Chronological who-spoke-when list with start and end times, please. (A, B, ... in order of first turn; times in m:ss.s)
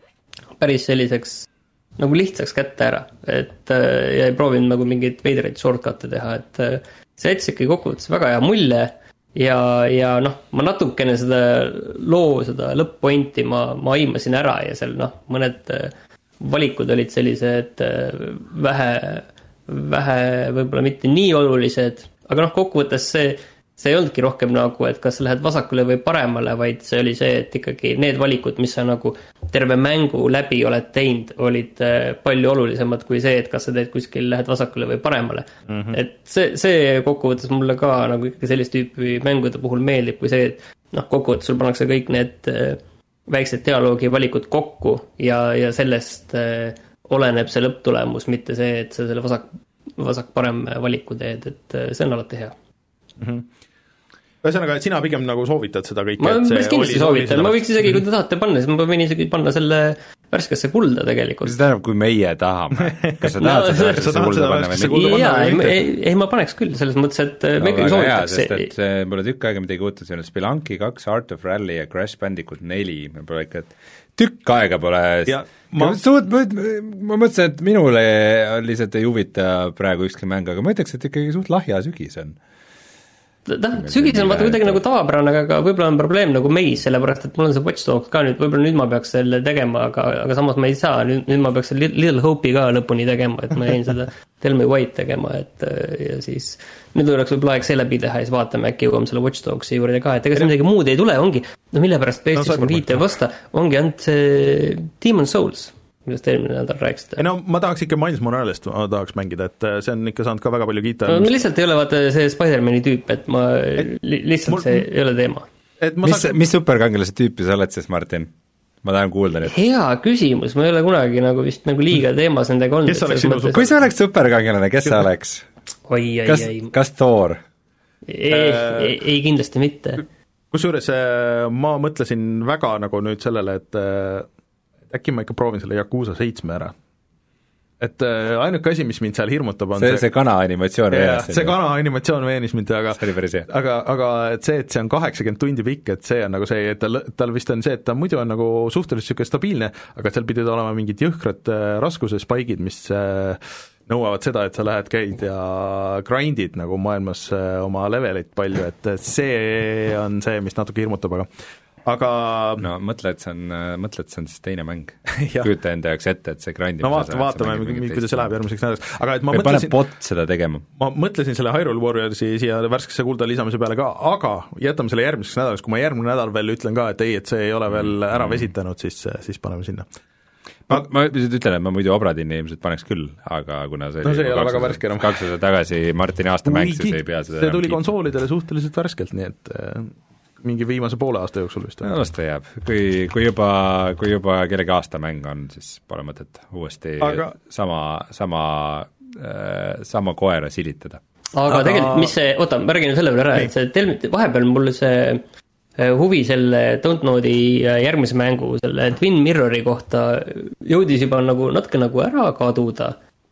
0:00.6-0:52.5 A
0:35.7-0:36.0 B
0:53.2-0:53.5 B
0:54.4-0:58.0 B
0:56.2-1:01.5 A
1:01.4-1:05.3 C
1:03.2-1:05.8 B
1:03.4-1:03.9 A
1:04.9-1:08.7 A
1:07.6-1:22.4 C
1:15.3-1:16.0 B
1:23.5-1:47.2 A
1:23.8-1:24.8 C
1:42.4-1:43.0 B
1:47.2-1:51.3 B
1:51.1-1:55.5 A
1:54.5-1:54.8 B
1:55.8-1:56.4 B
1:56.0-1:58.3 C
1:58.8-1:59.6 C
1:59.5-2:03.6 A
2:02.9-2:03.9 B
2:03.5-2:05.4 C
2:05.9-2:06.7 A
2:06.3-2:07.4 C
2:08.1-2:10.0 A
2:08.3-2:09.0 B
2:10.5-2:14.3 B
2:14.9-2:16.7 B
2:17.8-2:20.1 B
2:19.8-2:21.6 C
2:20.9-2:41.3 B
2:22.9-2:23.5 C
2:41.8-2:42.7 B
2:42.6-2:48.3 C
2:45.2-2:45.5 B
2:46.8-2:49.8 B
2:49.3-2:50.6 C
2:50.8-2:59.9 B
2:57.7-2:58.5 C
3:00.7-3:07.8 C
3:04.0-3:05.2 B
3:06.4-3:11.9 B
3:11.8-3:21.0 C
3:17.0-3:17.3 B
3:21.3-3:25.2 A
3:21.5-3:22.1 B
3:25.8-3:33.0 A